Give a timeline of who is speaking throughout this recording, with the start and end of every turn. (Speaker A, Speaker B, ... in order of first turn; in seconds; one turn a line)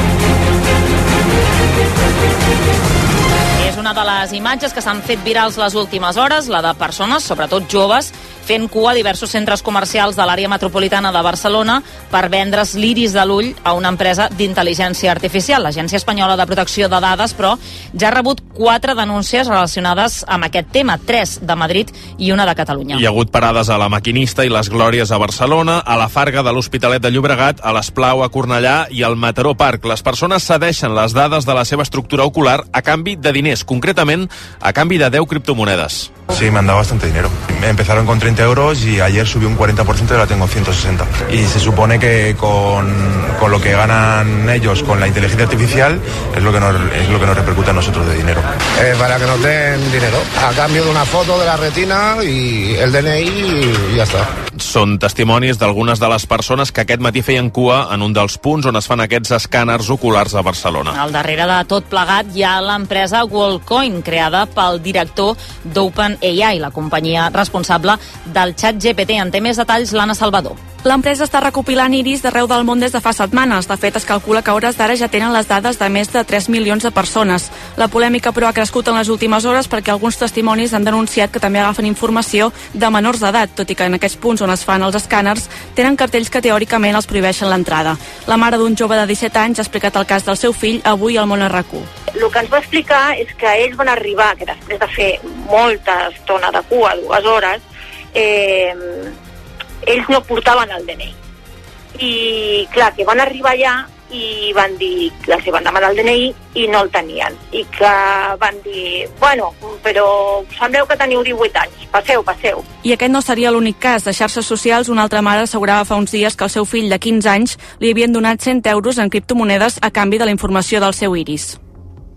Speaker A: 3.6-23.0
Speaker B: 22.9-36.1
Speaker C: 36.3-48.5
Speaker D: 48.8-54.3
Speaker B: 54.6-60.9
Speaker A: 60.9-70.6
Speaker E: 70.8-91.9
Speaker F: 92.2-97.6
Speaker F: 98.1-99.1
Speaker F: 99.8-101.1
Speaker F: 102.0-112.7
Speaker E: 112.8-121.6